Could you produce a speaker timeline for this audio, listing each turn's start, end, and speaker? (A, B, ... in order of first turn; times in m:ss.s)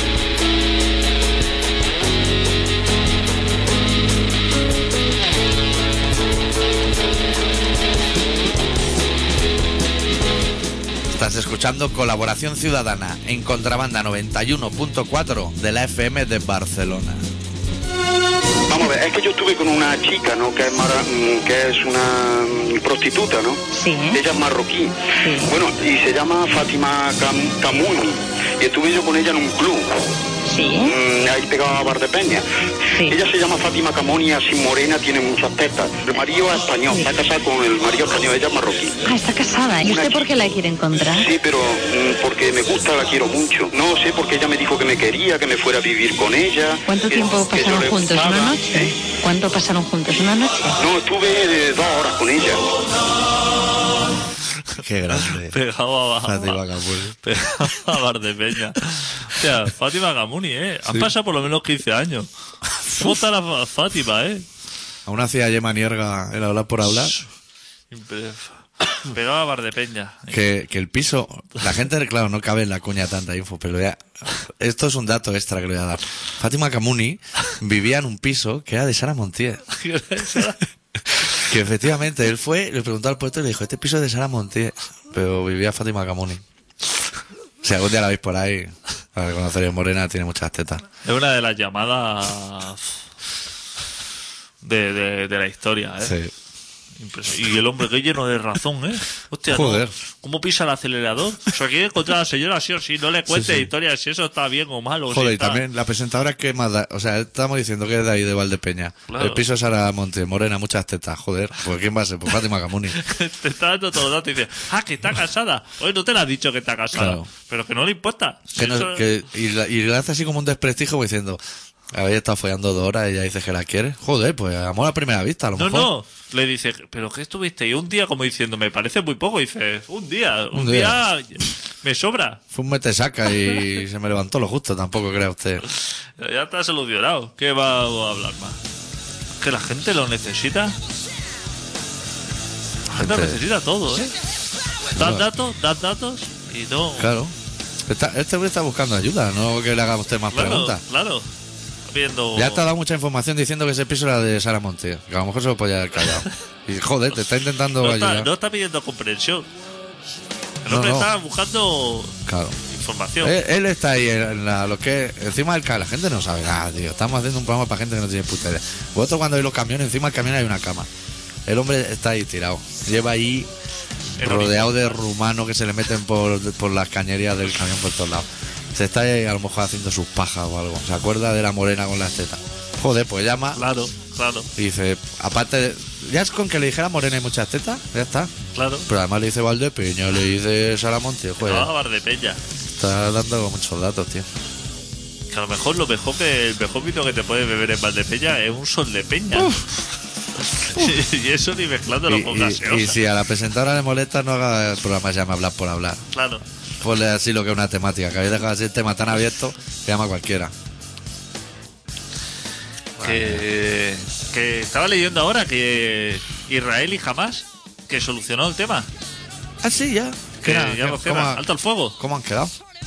0:11.1-0:17.2 A
0:18.7-0:30.0 B
0:23.7-0:24.2 C
0:25.2-0:25.5 C
0:30.4-0:31.0 C
0:30.8-0:32.4 B
0:33.0-0:39.0 B
0:39.0-0:41.3 C
0:39.8-0:40.5 B
0:41.2-0:48.9 B
0:46.9-0:50.8 C
0:50.8-0:52.7 B
0:54.7-0:55.6 A
0:55.2-0:56.6 D
0:56.2-0:57.2 A
0:57.2-1:02.3 D
1:02.8-1:04.4 D
1:05.0-1:07.1 A
1:06.8-1:07.3 D
1:07.9-1:10.4 D
1:10.3-1:19.6 A
1:19.7-1:20.6 D
1:21.4-1:26.4 A
1:27.6-1:30.8 A
1:31.0-1:32.9 D
1:34.6-1:36.2 D
1:36.0-1:36.3 A
1:37.0-1:45.6 D
1:39.5-1:40.0 A
1:43.3-1:43.7 A
1:45.1-1:53.0 A
1:49.1-1:49.4 D
1:53.0-1:59.0 D
1:56.9-1:57.3 A
1:58.5-2:01.4 A
2:01.9-2:05.9 A
2:05.6-2:12.4 D
2:10.5-2:11.0 A
2:12.5-2:15.6 A
2:16.2-2:18.6 D
2:19.4-2:20.8 D
2:22.9-2:24.2 D
2:22.9-2:23.4 A
2:24.9-2:27.1 D
2:24.9-2:25.3 A
2:27.0-2:27.3 A
2:27.9-2:30.8 A
2:30.3-2:31.3 D
2:31.9-2:32.6 D
2:32.3-2:38.3 A
2:37.8-2:39.5 D
2:40.6-2:43.4 D
2:40.6-2:41.1 A
2:42.2-2:42.6 A
2:43.2-2:50.9 A
2:51.4-2:53.5 A
2:54.2-3:03.6 A
2:54.2-2:55.0 D
3:03.5-3:04.5 D
3:04.6-3:08.3 A
3:08.5-3:08.9 D
3:08.9-3:11.7 A
3:11.4-3:12.4 D
3:12.8-3:14.3 A
3:15.3-3:19.6 D
3:19.3-3:19.6 A
3:20.4-3:23.0 D
3:22.1-3:26.0 A
3:26.1-3:26.4 D
3:26.8-3:30.5 A
3:33.0-3:33.5 A
3:33.0-3:38.9 D
3:39.6-3:41.4 A
3:40.4-3:42.0 D
3:42.0-3:42.5 A